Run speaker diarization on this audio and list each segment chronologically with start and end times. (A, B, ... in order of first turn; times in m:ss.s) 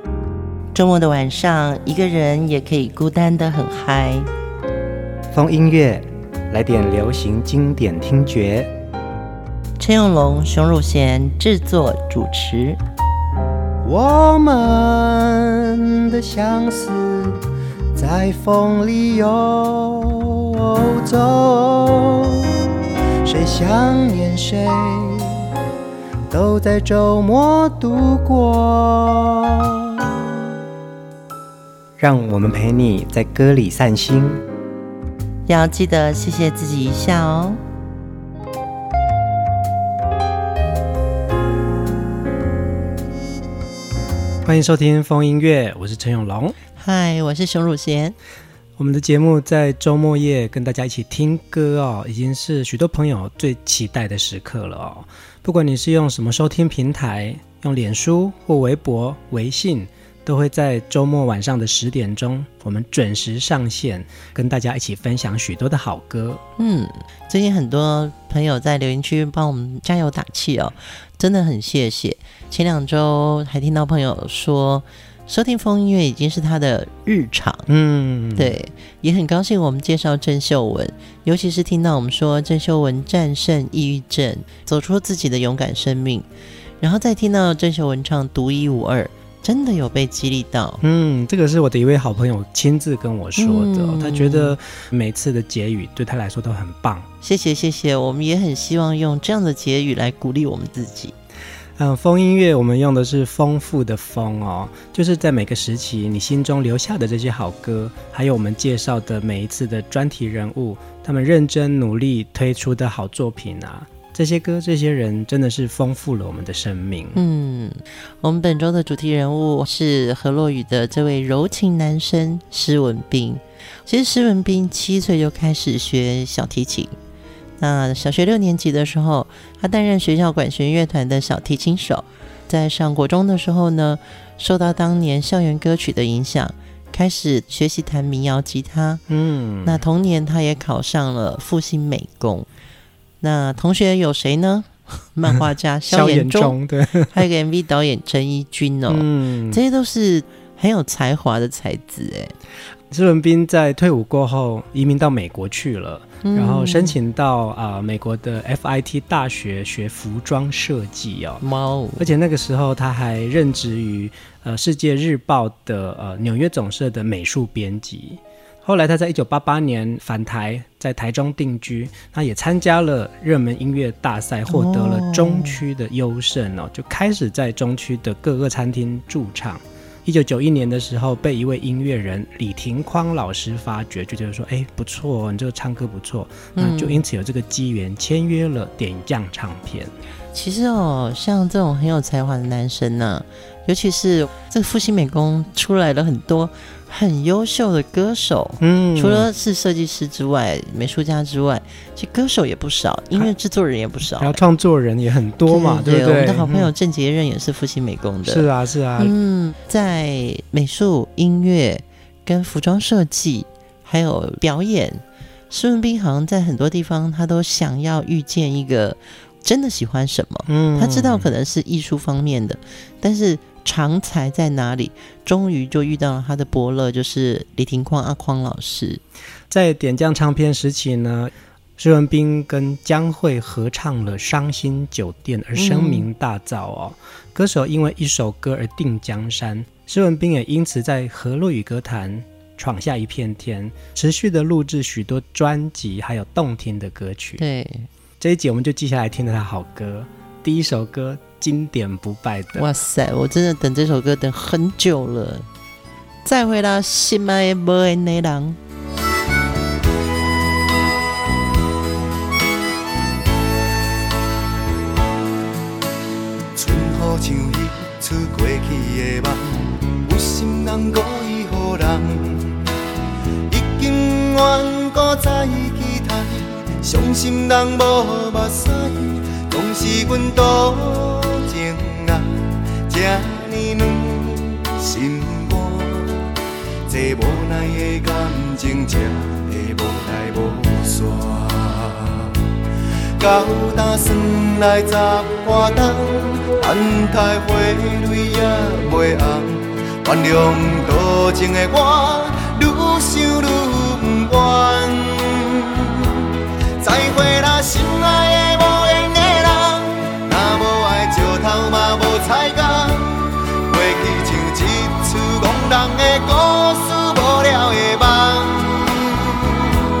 0:00.7-0:04.3 A
0:05.3-0:08.7 B
0:09.8-0:12.8 A
0:13.8-0:17.3 B
0:17.9-0:22.4 B
0:23.2-0:25.3 B
0:26.3-0:30.1 B
0:32.0-0:34.4 B
0:35.5-0:37.6 A
0:44.4-0:46.6 B
0:46.8-0:48.2 A
0:48.8-1:06.4 B
1:06.6-1:17.6 A
1:17.7-1:18.6 B
1:18.4-1:26.2 A
1:26.8-1:30.8 A
1:30.8-1:37.1 B
1:33.4-1:34.6 A
1:37.2-1:41.1 A
1:41.8-1:57.2 B
1:57.1-2:06.9 A
2:07.6-2:19.0 A
2:19.1-2:19.8 B
2:19.6-2:22.5 A
2:23.2-2:26.6 A
2:25.9-2:27.2 B
2:27.1-2:32.3 A
2:28.9-2:29.6 B
2:32.9-2:41.4 B
2:36.2-2:37.0 A
2:41.4-2:42.1 A
2:42.0-3:09.9 B
2:54.5-2:55.6 A
3:06.6-3:07.0 A
3:10.3-3:24.4 A
3:18.6-3:19.3 B
3:24.2-3:26.7 B
3:25.5-3:49.0 A
3:28.2-3:29.1 B
3:40.5-3:41.3 B
3:49.5-4:07.4 B
3:55.5-3:56.0 A
4:07.4-4:07.9 A
4:08.2-4:12.6 B
4:12.5-4:15.5 A
4:16.2-4:18.6 A
4:26.5-4:32.6 C
4:33.5-4:46.3 C
4:46.8-4:52.4 C
4:53.2-5:06.2 C
5:06.8-5:19.7 C